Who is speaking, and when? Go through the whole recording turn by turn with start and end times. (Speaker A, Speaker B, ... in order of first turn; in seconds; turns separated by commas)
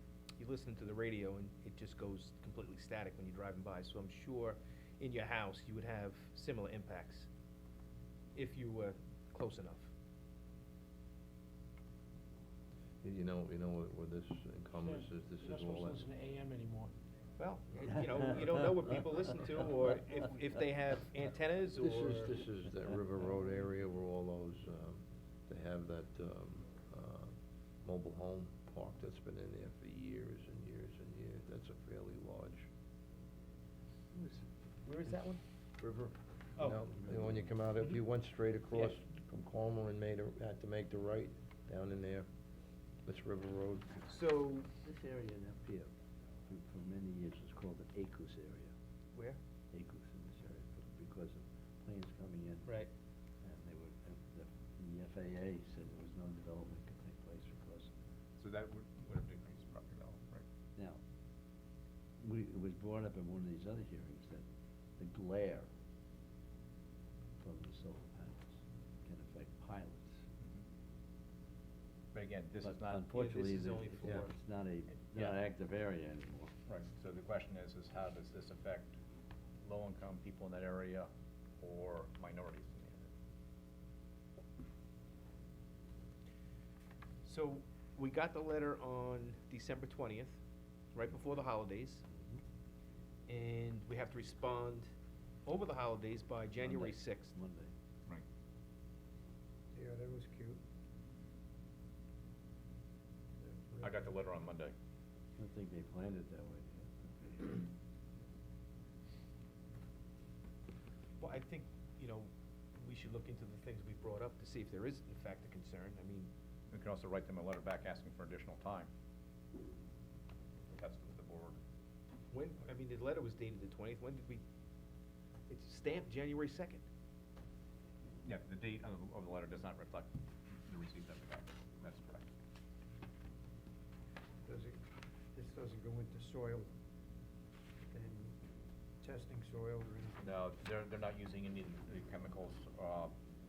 Speaker A: 0.4-7.3, Speaker A: 8.3-9.9, Speaker B: 13.0-16.0, Speaker C: 14.8-16.9, Speaker A: 17.4-22.3, Speaker B: 22.1-32.7, Speaker A: 34.8-35.4, Speaker B: 36.6-42.3, Speaker B: 43.0-43.9, Speaker A: 44.0-44.7, Speaker D: 44.8-45.9, Speaker D: 46.5-48.7, Speaker A: 49.1-49.4, Speaker D: 49.7-52.8, Speaker D: 53.4-57.9, Speaker E: 58.4-60.4, Speaker D: 62.2-64.4, Speaker D: 65.0-65.7, Speaker D: 67.4-70.2, Speaker E: 72.1-73.2, Speaker D: 72.6-76.5, Speaker A: 73.1-74.3, Speaker E: 76.7-79.0, Speaker E: 79.6-83.1, Speaker A: 87.2-90.4, Speaker A: 90.9-92.0, Speaker D: 92.1-92.4, Speaker A: 93.3-94.9, Speaker A: 95.4-97.3, Speaker D: 96.6-97.7, Speaker F: 99.7-100.6, Speaker F: 103.4-104.0, Speaker E: 103.8-104.7, Speaker D: 105.4-107.7, Speaker A: 111.2-116.3, Speaker E: 116.7-118.9, Speaker E: 120.7-121.6, Speaker A: 122.3-124.4, Speaker A: 125.5-126.8, Speaker E: 128.2-132.2, Speaker F: 134.4-134.8, Speaker F: 135.3-136.7, Speaker F: 137.8-138.4, Speaker F: 139.0-140.3, Speaker E: 140.2-143.1